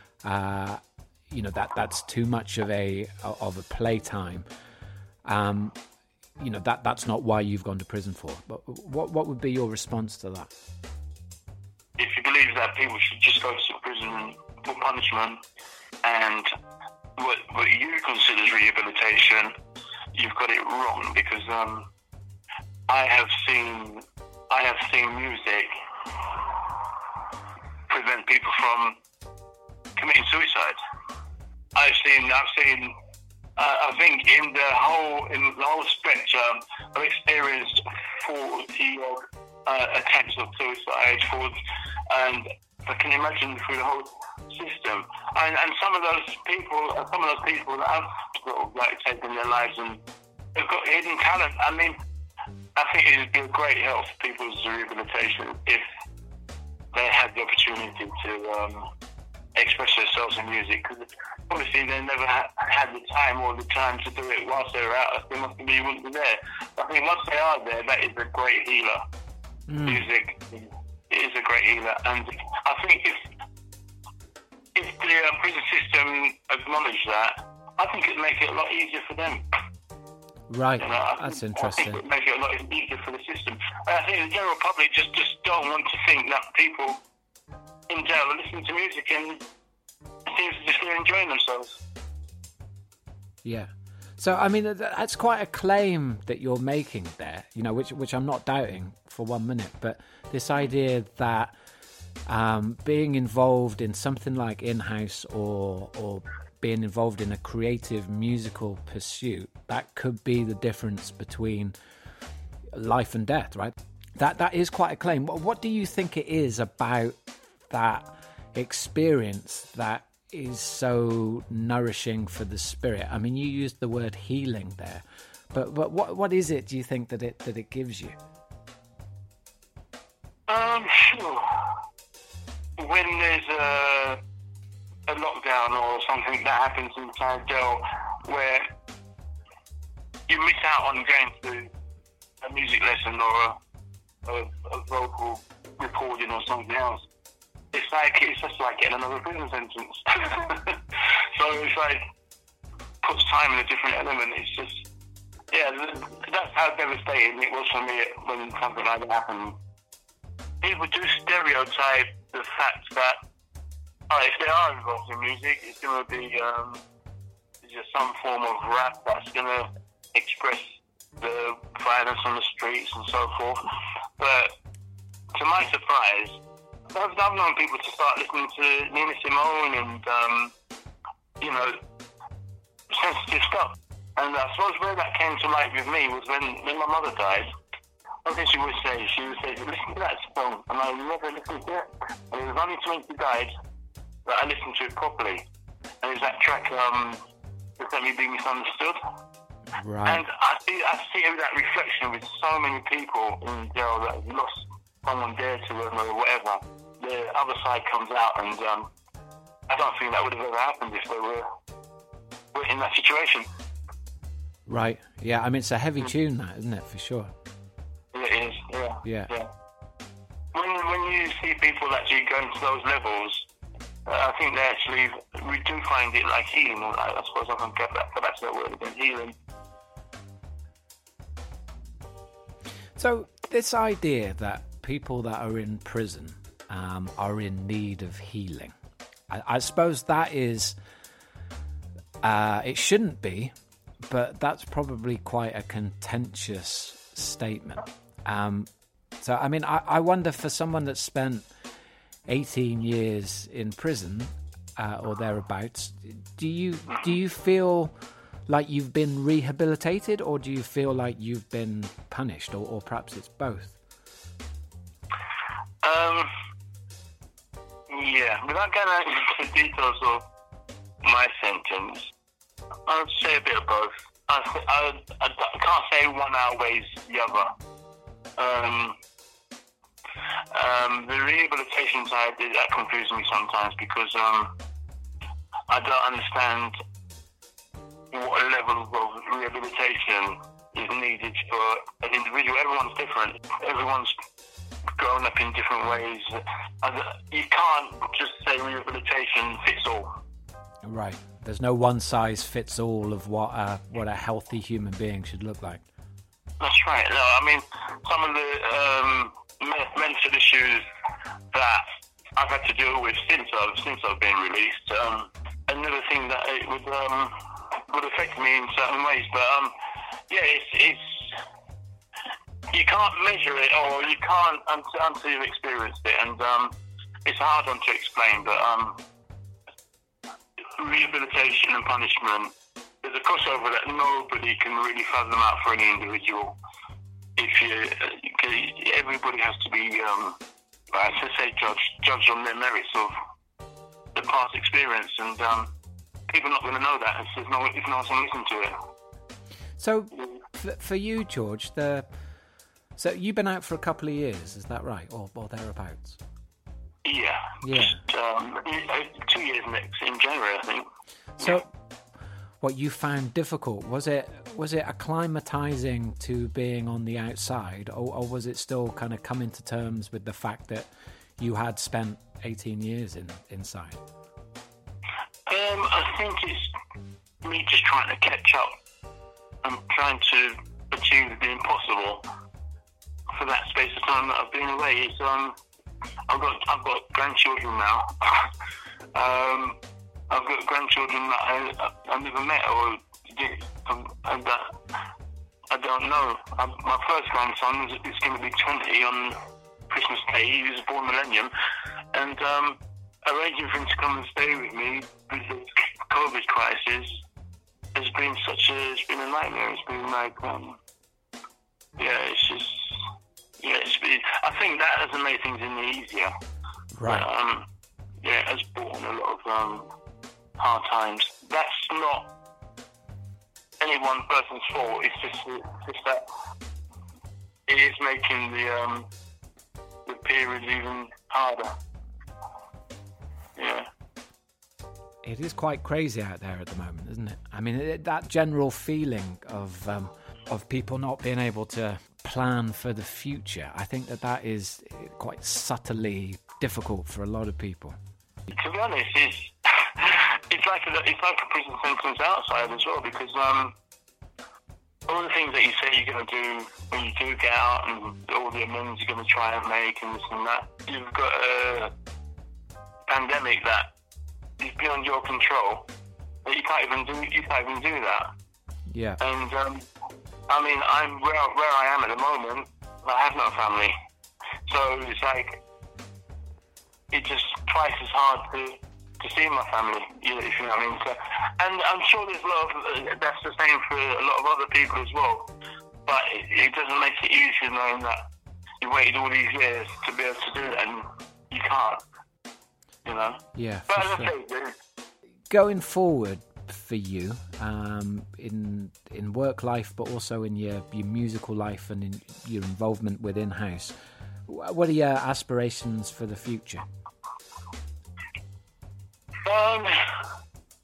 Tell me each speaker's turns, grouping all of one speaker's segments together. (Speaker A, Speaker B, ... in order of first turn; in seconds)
Speaker A: 0.2-4.5, 5.2-5.8, 6.4-10.5, 69.7-70.1, 80.5-82.0, 93.4-101.5, 102.3-111.7, 112.7-128.2, 199.8-200.2, 214.7-217.3, 219.0-219.3, 233.0-238.7, 239.3-240.8, 242.2-243.5, 244.1-248.7, 249.2-251.5, 252.3-257.9, 258.5-263.7, 300.8-305.8, 349.8-352.1, 353.0-356.2, 357.6-358.0, 361.4-361.7, 362.6-374.0, 417.0-417.3, 435.2-448.0, 468.9-469.2, 493.5-494.3, 495.5-503.9, 504.5-506.8
Speaker B: 12.0-15.4, 16.0-16.5, 17.2-19.6, 20.1-21.9, 22.9-25.7, 27.9-29.0, 30.0-30.8, 31.8-32.9, 33.6-41.5, 42.1-50.0, 50.5-52.0, 52.8-55.8, 56.9-58.9, 59.5-69.0, 69.8-73.2, 74.7-79.4, 80.8-87.0, 87.9-89.4, 90.3-91.8, 130.5-131.7, 132.8-134.2, 135.1-138.7, 140.3-141.7, 142.4-143.6, 144.2-147.1, 147.7-150.8, 151.3-152.0, 153.0-154.8, 155.5-159.6, 160.6-163.2, 164.1-166.8, 167.6-170.6, 171.2-173.6, 174.2-174.5, 175.3-176.4, 176.9-180.5, 181.4-181.8, 182.9-187.5, 188.2-193.5, 194.2-195.4, 196.0-197.2, 197.8-199.0, 200.1-208.9, 209.7-211.5, 212.5-213.5, 218.1-219.5, 220.5-223.4, 224.1-229.3, 265.8-266.3, 267.9-270.2, 271.0-272.0, 272.9-277.5, 278.4-278.9, 280.5-284.5, 285.7-286.8, 288.1-294.1, 295.0-300.2, 306.6-310.8, 311.5-319.7, 320.3-321.2, 322.7-329.0, 330.8-336.6, 337.4-340.4, 340.9-343.1, 344.1-345.7, 346.3-348.7, 357.0-360.9, 375.5-376.7, 377.4-378.7, 379.6-382.2, 383.3-385.6, 386.3-388.5, 389.1-389.8, 390.3-394.7, 395.7-399.4, 399.9-401.5, 402.1-407.1, 407.9-410.8, 412.0-412.9, 413.6-416.3, 417.0-417.6, 418.2-419.9, 420.6-422.3, 423.8-426.2, 427.7-429.1, 430.1-431.7, 433.6-433.9, 448.5-453.7, 455.1-461.9, 463.1-463.9, 464.6-465.9, 466.4-468.3, 469.2-469.8, 470.5-473.9, 474.7-475.6, 477.1-485.5, 486.1-488.2, 488.8-492.0, 493.0-494.7, 509.4-510.2